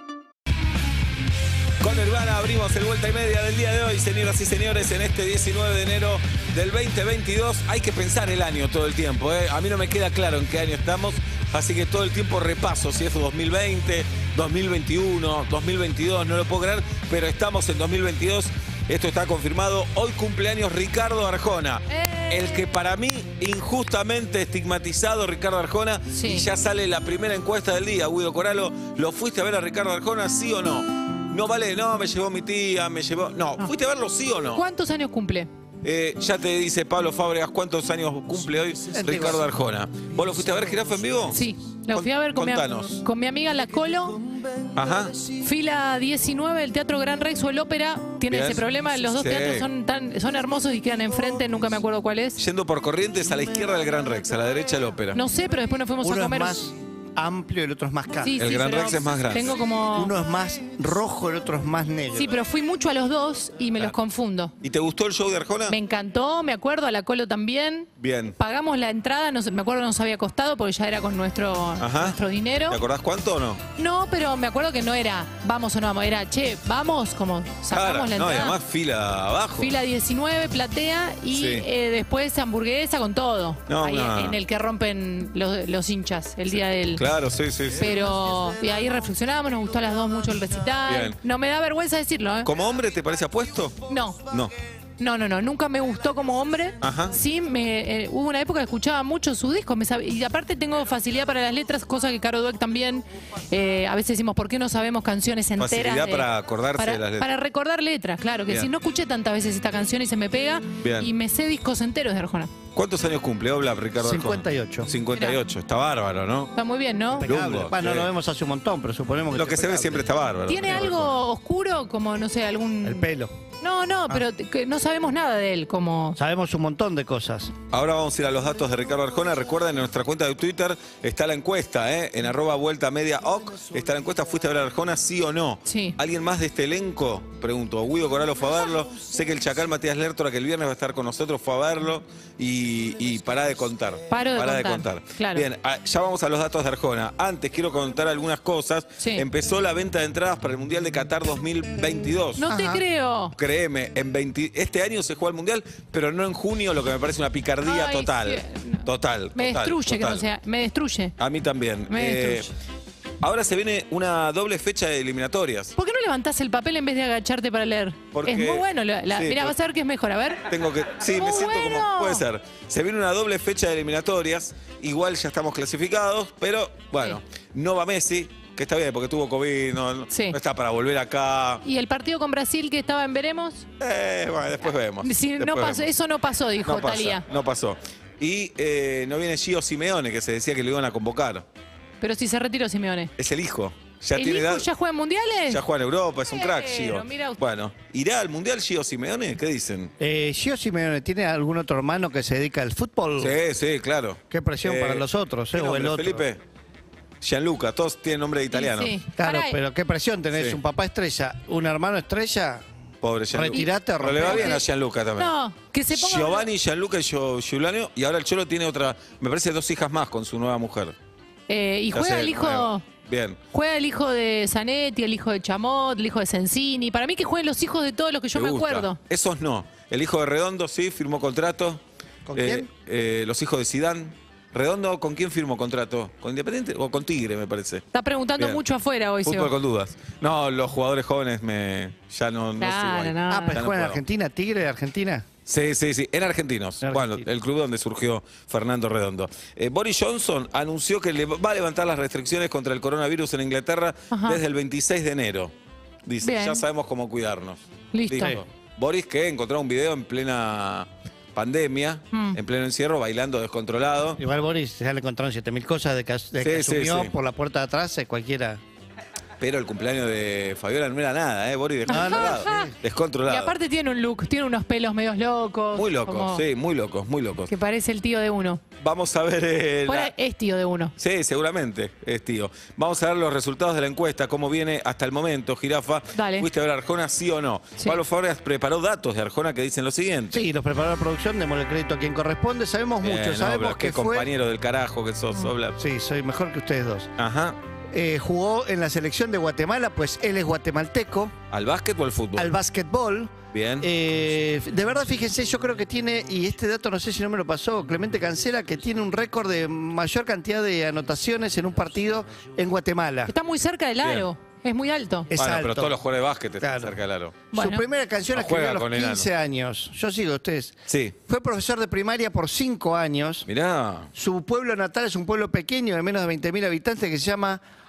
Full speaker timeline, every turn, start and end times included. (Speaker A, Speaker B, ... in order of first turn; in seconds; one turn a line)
Speaker A: 1.8-34.6
Speaker B: 21.9-22.7
Speaker B: 26.1-26.5
Speaker B: 34.5-35.5
Speaker A: 35.8-41.4
Speaker C: 38.9-39.5
Speaker B: 41.3-44.3
Speaker A: 41.9-43.0
Speaker A: 44.7-45.2
Speaker B: 45.3-52.4
Speaker A: 48.3-49.7
Speaker A: 52.4-55.2
Speaker B: 55.1-56.7
Speaker C: 56.0-58.4
Speaker B: 58.2-60.1
Speaker A: 58.4-59.6
Speaker C: 59.9-62.4
Speaker B: 62.1-64.5
Speaker A: 64.6-65.8
Speaker B: 65.7-72.8
Speaker A: 68.0-68.3
Speaker A: 71.8-73.6
Speaker B: 73.7-78.6
Speaker A: 77.7-79.7
Speaker B: 79.5-87.0
Speaker A: 81.3-81.7
Speaker A: 83.7-84.4
Speaker A: 86.5-87.9
Speaker B: 87.7-92.5
Speaker A: 90.9-91.2
Speaker A: 92.4-93.8
Speaker B: 93.8-94.2
Speaker B: 95.0-112.5
Speaker A: 96.8-97.2
Speaker A: 105.6-107.3
Speaker A: 110.8-111.1
Speaker A: 112.7-116.5
Speaker C: 114.0-114.9
Speaker B: 115.1-115.4
Speaker B: 116.5-117.3
Speaker C: 117.1-120.1
Speaker A: 117.1-118.1
Speaker A: 119.3-121.2
Speaker B: 120.5-123.1
Speaker C: 120.6-120.9
Speaker C: 122.8-123.3
Speaker B: 123.6-126.2
Speaker C: 126.2-127.5
Speaker A: 127.7-152.4
Speaker B: 135.6-136.0
Speaker B: 144.1-145.5
Speaker B: 149.0-149.3
Speaker B: 152.4-153.3
Speaker C: 152.4-152.8
Speaker A: 153.3-160.2
Speaker B: 157.6-161.2
Speaker A: 161.2-162.5
Speaker B: 161.9-162.5
Speaker A: 163.2-165.7
Speaker B: 165.8-172.2
Speaker A: 168.1-169.5
Speaker A: 170.5-181.6
Speaker B: 180.1-180.4
Speaker B: 181.6-183.7
Speaker A: 183.8-185.9
Speaker B: 185.0-187.2
Speaker A: 186.6-191.4
Speaker B: 192.0-193.1
Speaker A: 193.2-194.7
Speaker B: 194.1-195.6
Speaker A: 195.5-199.9
Speaker B: 196.3-197.4
Speaker C: 200.0-203.3
Speaker A: 203.2-206.4
Speaker C: 204.3-206.3
Speaker A: 207.2-208.9
Speaker B: 208.5-209.6
Speaker C: 209.2-212.6
Speaker A: 210.3-210.6
Speaker A: 213.0-215.3
Speaker C: 213.3-214.6
Speaker B: 213.5-216.5
Speaker A: 215.9-220.9
Speaker B: 221.5-222.8
Speaker A: 221.9-223.4
Speaker B: 223.5-229.0
Speaker A: 228.3-231.8
Speaker C: 232.3-232.7
Speaker A: 232.3-237.8
Speaker B: 237.9-239.5
Speaker A: 238.4-238.6
Speaker A: 239.2-244.0
Speaker B: 242.6-243.6
Speaker C: 243.3-245.2
Speaker A: 245.4-255.5
Speaker C: 246.8-247.2
Speaker B: 254.1-254.4
Speaker A: 256.1-264.2
Speaker B: 256.2-256.6
Speaker B: 257.9-258.4
Speaker B: 262.1-262.4
Speaker C: 264.2-268.6
Speaker A: 266.4-267.1
Speaker A: 269.4-273.5
Speaker B: 271.9-276.4
Speaker C: 271.9-272.7
Speaker A: 275.7-277.5
Speaker B: 277.4-278.6
Speaker A: 278.8-280.1
Speaker B: 279.8-280.9
Speaker A: 281.0-290.4
Speaker B: 286.1-286.5
Speaker C: 290.3-294.3
Speaker A: 293.0-295.8
Speaker C: 295.8-297.1
Speaker A: 297.2-297.6
Speaker C: 297.9-301.3
Speaker A: 301.5-302.5
Speaker C: 302.4-313.3
Speaker A: 303.5-303.9
Speaker B: 313.2-315.3
Speaker A: 314.0-314.3
Speaker C: 315.3-315.9
Speaker A: 315.3-317.4
Speaker C: 316.6-317.0
Speaker B: 317.5-317.9
Speaker C: 317.5-323.5
Speaker A: 318.3-319.3
Speaker A: 320.9-321.1
Speaker A: 323.4-324.1
Speaker C: 324.1-327.6